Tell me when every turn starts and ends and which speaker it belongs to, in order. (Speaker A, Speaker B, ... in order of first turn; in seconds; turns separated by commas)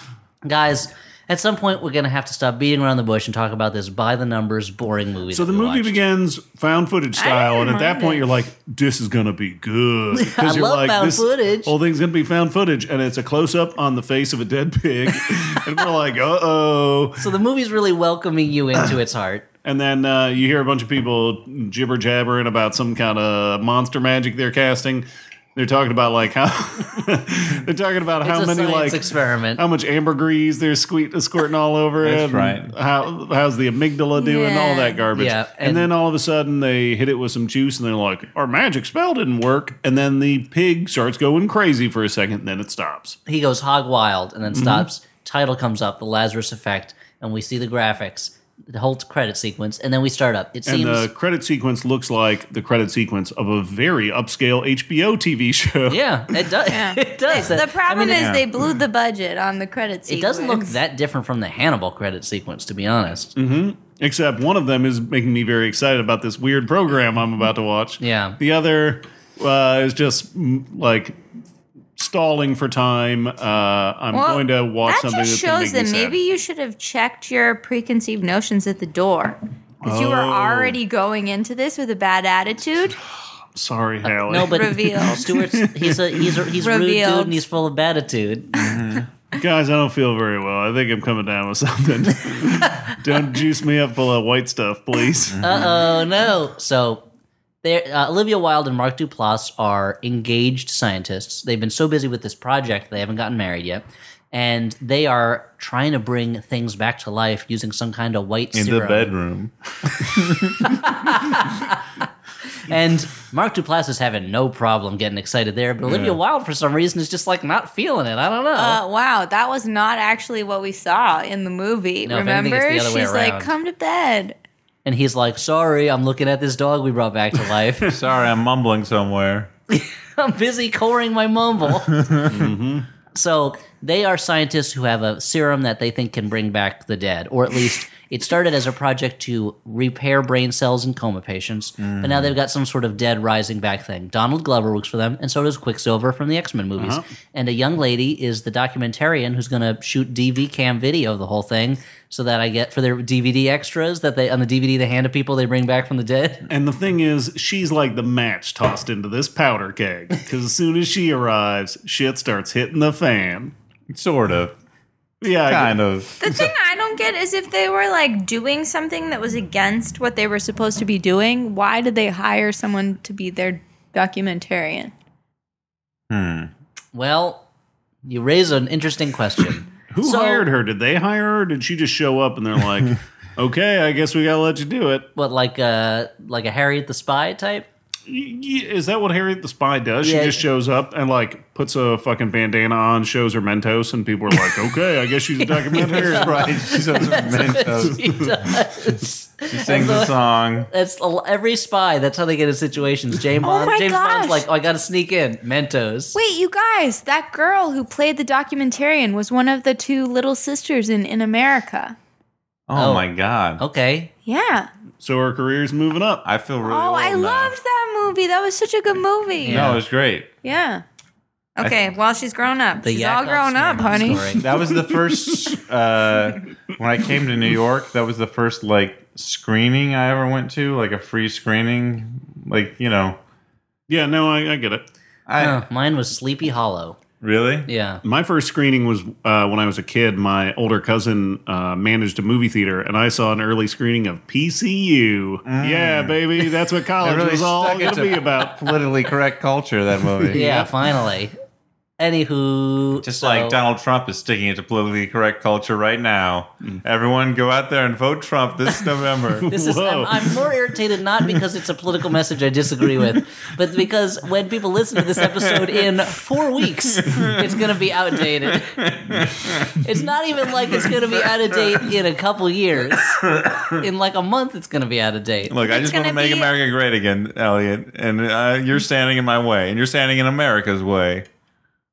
Speaker A: 0.4-6.0, Speaker B: 5.3-17.3, Speaker C: 7.2-8.2, Speaker A: 10.1-11.7, Speaker A: 17.2-19.4, Speaker B: 19.6-43.2, Speaker A: 28.2-29.6, Speaker D: 32.0-32.7, Speaker C: 34.1-35.0, Speaker A: 35.1-35.9, Speaker A: 43.2-51.1, Speaker B: 44.5-44.9, Speaker B: 50.6-56.4, Speaker A: 55.9-58.3, Speaker C: 56.7-60.8, Speaker D: 58.1-58.4, Speaker A: 60.1-63.3, Speaker B: 63.4-71.2, Speaker A: 68.0-68.4, Speaker B: 72.0-76.2, Speaker C: 74.1-83.0, Speaker B: 79.8-80.8, Speaker B: 83.5-86.4, Speaker A: 84.0-88.8, Speaker C: 84.4-85.2, Speaker C: 86.6-87.4, Speaker D: 88.6-89.1, Speaker B: 89.3-95.5, Speaker D: 95.4-95.7, Speaker A: 95.4-97.0, Speaker A: 97.6-109.1, Speaker D: 108.5-111.5, Speaker A: 110.6-118.8, Speaker D: 115.8-116.2, Speaker C: 118.5-124.3, Speaker A: 122.0-123.5, Speaker A: 124.8-127.9, Speaker D: 127.8-129.5, Speaker A: 129.7-131.9, Speaker D: 131.9-132.4, Speaker B: 132.2-132.9, Speaker A: 133.1-156.5, Speaker D: 141.8-142.3, Speaker B: 146.8-147.1, Speaker B: 156.5-163.5, Speaker D: 163.9-164.5, Speaker B: 165.2-165.8, Speaker D: 165.4-166.5, Speaker C: 166.2-174.9, Speaker D: 176.1-176.5, Speaker A: 176.9-177.4, Speaker A: 178.0-180.5, Speaker B: 179.9-185.1, Speaker A: 185.2-187.7, Speaker B: 188.1-196.5, Speaker A: 190.0-190.4, Speaker A: 195.4-200.1, Speaker D: 195.8-198.3, Speaker D: 199.5-200.7, Speaker A: 200.7-206.2, Speaker C: 203.4-204.4, Speaker C: 206.1-211.9, Speaker D: 212.7-213.6, Speaker A: 212.8-213.1, Speaker A: 213.6-214.1, Speaker C: 214.2-214.7, Speaker B: 215.0-216.2, Speaker D: 216.2-217.6, Speaker C: 216.6-219.8, Speaker A: 219.4-219.8, Speaker D: 219.5-220.3, Speaker C: 220.4-220.8, Speaker C: 221.6-224.3, Speaker A: 222.8-224.4, Speaker D: 224.4-233.2, Speaker B: 224.5-225.6, Speaker B: 233.9-234.9, Speaker D: 235.3-235.6, Speaker A: 235.4-237.0, Speaker D: 237.2-237.7, Speaker A: 237.7-238.0, Speaker B: 238.0-248.8, Speaker D: 245.4-246.2, Speaker D: 247.0-250.4, Speaker B: 250.0-250.7, Speaker A: 250.3-251.3, Speaker A: 252.0-253.6, Speaker D: 253.0-259.5, Speaker B: 259.3-260.5, Speaker A: 259.5-268.7, Speaker D: 265.2-265.8, Speaker D: 266.9-267.5, Speaker D: 268.5-269.8, Speaker A: 269.8-273.2, Speaker D: 270.7-271.2, Speaker D: 273.2-273.8, Speaker A: 273.8-275.5, Speaker D: 275.5-281.2, Speaker C: 275.6-276.5